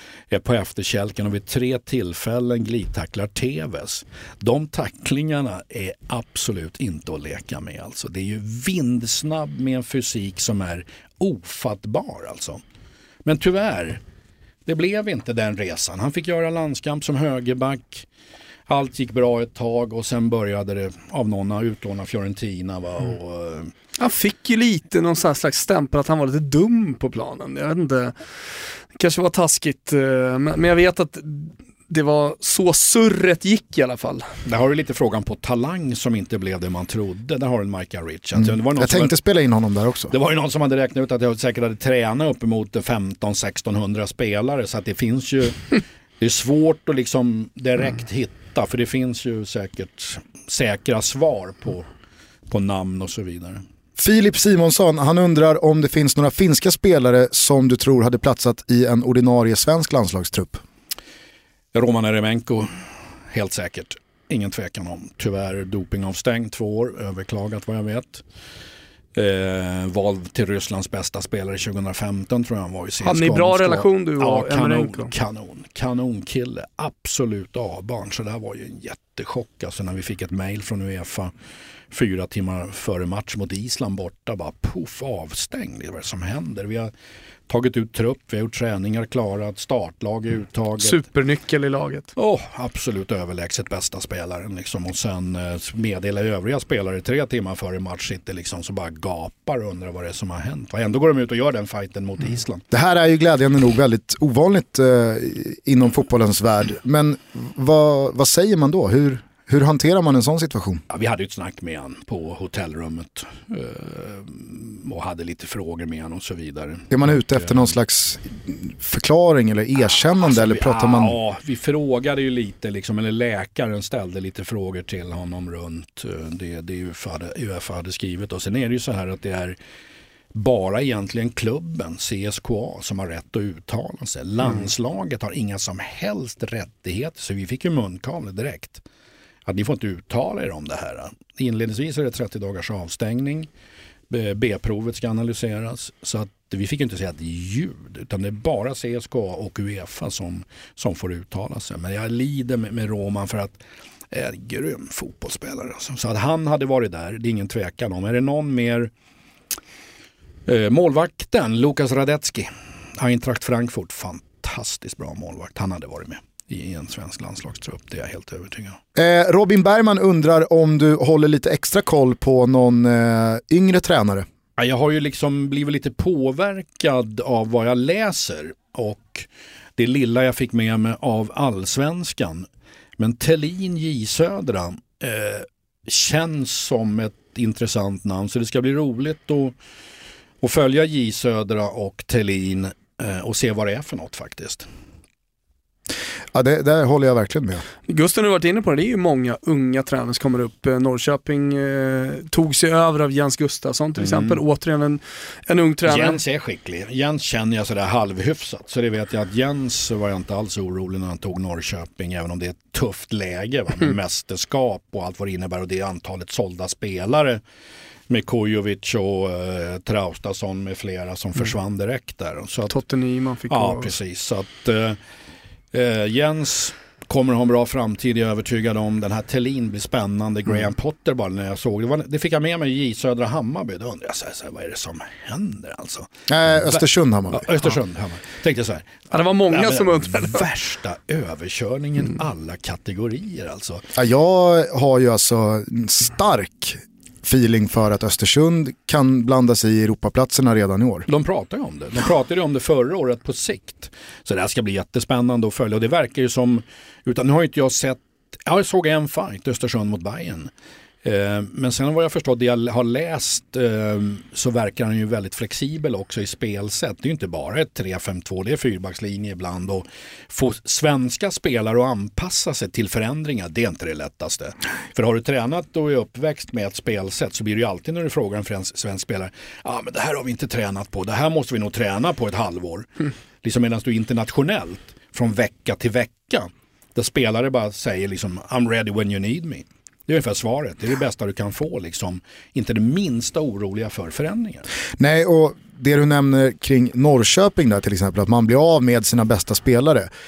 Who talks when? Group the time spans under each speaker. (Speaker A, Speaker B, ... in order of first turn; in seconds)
Speaker A: 0.3-12.6, 13.2-14.0, 14.7-18.1, 18.7-23.7, 34.4-39.2, 40.1-51.9, 52.5-53.6, 61.7-68.2, 69.1-81.3, 81.9-86.9, 87.5-91.0, 92.2-102.6, 110.9-117.7, 120.2-129.6, 130.3-138.8, 139.4-143.5, 144.1-158.9, 160.5-168.8, 174.6-182.5, 183.0-189.6, 190.4-194.7, 204.0-204.4, 205.8-217.4, 218.1-222.7, 223.5-225.0, 225.7-243.8, 251.1-260.5, 261.0-294.6
Speaker B: 24.0-28.1, 28.9-34.3, 73.0-75.1, 90.8-92.1, 197.9-206.2, 222.7-223.9, 239.1-240.4
Speaker C: 38.4-40.1, 54.0-60.6, 102.7-110.8, 116.9-121.2, 168.9-174.2, 196.3-197.6, 236.3-237.5, 243.9-251.1, 295.0-300.1